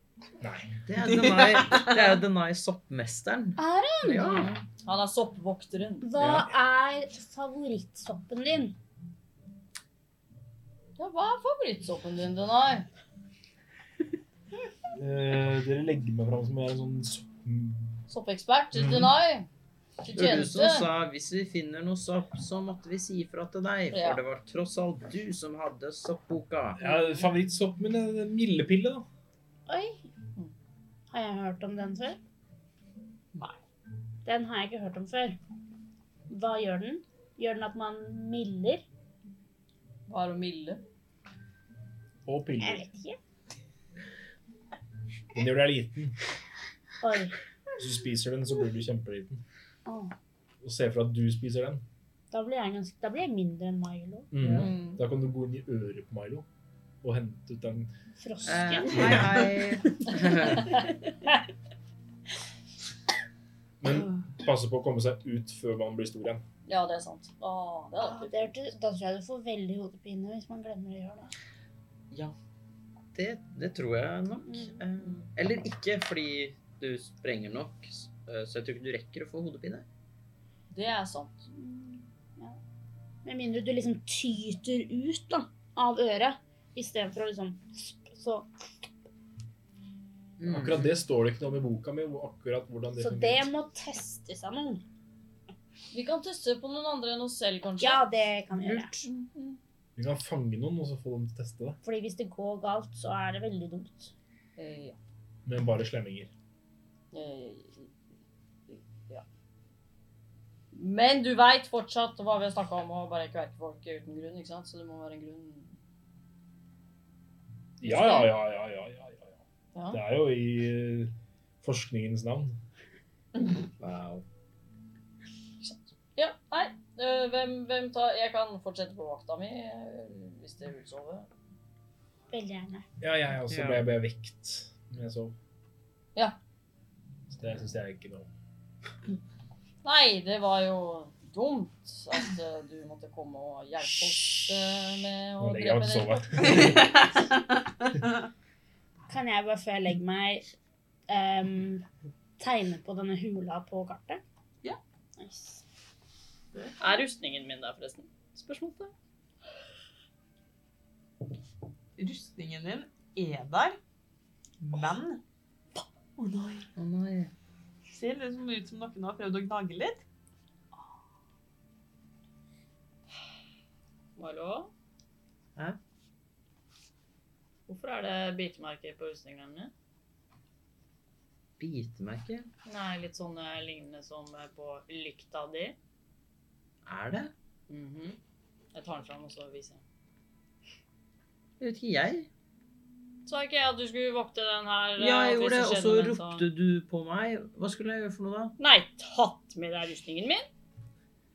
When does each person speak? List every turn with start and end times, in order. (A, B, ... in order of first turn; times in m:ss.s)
0:00.4-0:00.7 A
0:00.9-0:04.5 B
0:01.1-0:02.1 C
0:03.6-0:04.5 D
0:04.2-0:06.1 E
0:06.0-0:08.8 D
0:06.2-0:06.5 A
0:11.0-0:12.9 E
0:15.0-0:18.0 A
0:18.1-0:19.5 E
0:18.7-0:19.2 A
0:20.0-0:20.9 E
0:20.1-0:26.8 B
0:23.9-0:24.2 E
0:26.8-0:29.1 A
0:26.8-0:27.3 E
0:29.7-0:30.0 D
0:31.1-0:32.2 D
0:33.3-0:33.6 C
0:34.2-0:35.4 D
0:36.3-0:38.8 D
0:40.1-0:40.8 E
0:42.3-0:42.9 A
0:42.6-0:43.2 D
0:45.3-0:46.2 A
0:47.0-0:47.4 D
0:47.8-0:49.4 A
0:49.8-0:50.1 D
0:50.6-0:51.8 A
0:52.3-0:54.3 D
0:54.3-0:56.5 A
0:54.4-0:55.0 E
0:57.0-0:57.9 A
0:58.2-0:59.4 D
0:58.4-1:00.8 B
1:03.8-1:06.4 A
1:06.7-1:08.5 E
1:08.0-1:11.3 D
1:13.1-1:19.9 B
1:14.5-1:14.8 D
1:20.7-1:21.5 E
1:21.5-1:22.6 D
1:23.2-1:28.5 D
1:30.4-1:30.9 B
1:30.5-1:33.4 A
1:33.0-1:34.8 D
1:35.9-1:38.0 E
1:37.8-1:39.0 D
1:38.6-1:39.0 B
1:39.0-1:39.6 E
1:40.0-1:41.8 A
1:41.8-1:44.1 D
1:44.6-1:45.0 E
1:45.5-1:46.3 A
1:47.1-1:47.9 E
1:48.7-1:49.2 E
1:50.7-1:55.7 E
1:57.8-1:59.4 A
1:57.8-1:58.3 E
1:59.7-2:00.0 E
1:59.9-2:02.6 A
2:03.8-2:04.2 B
2:05.6-2:11.3 E
2:12.3-2:12.8 D
2:13.0-2:15.4 A
2:13.5-2:13.8 B
2:17.3-2:18.3 A
2:19.8-2:27.2 E
2:25.4-2:26.8 A
2:26.4-2:28.2 C
2:29.1-2:30.5 D
2:31.1-2:31.8 D
2:32.4-2:34.2 D
2:35.2-2:35.6 D
2:36.5-2:37.0 C
2:36.8-2:38.9 E
2:42.0-2:43.8 C
2:44.6-2:44.9 B
2:44.7-2:45.2 C
2:46.2-2:46.7 C
2:46.8-2:47.3 B
2:47.9-2:50.0 C
2:54.2-2:54.7 E
2:57.7-2:59.7 E
3:01.6-3:02.5 B
3:02.7-3:05.8 E
3:06.8-3:07.3 B
3:07.7-3:08.2 E
3:08.7-3:09.8 E
3:11.6-3:12.3 B
3:13.3-3:16.4 E
3:15.0-3:18.6 B
3:18.6-3:20.5 E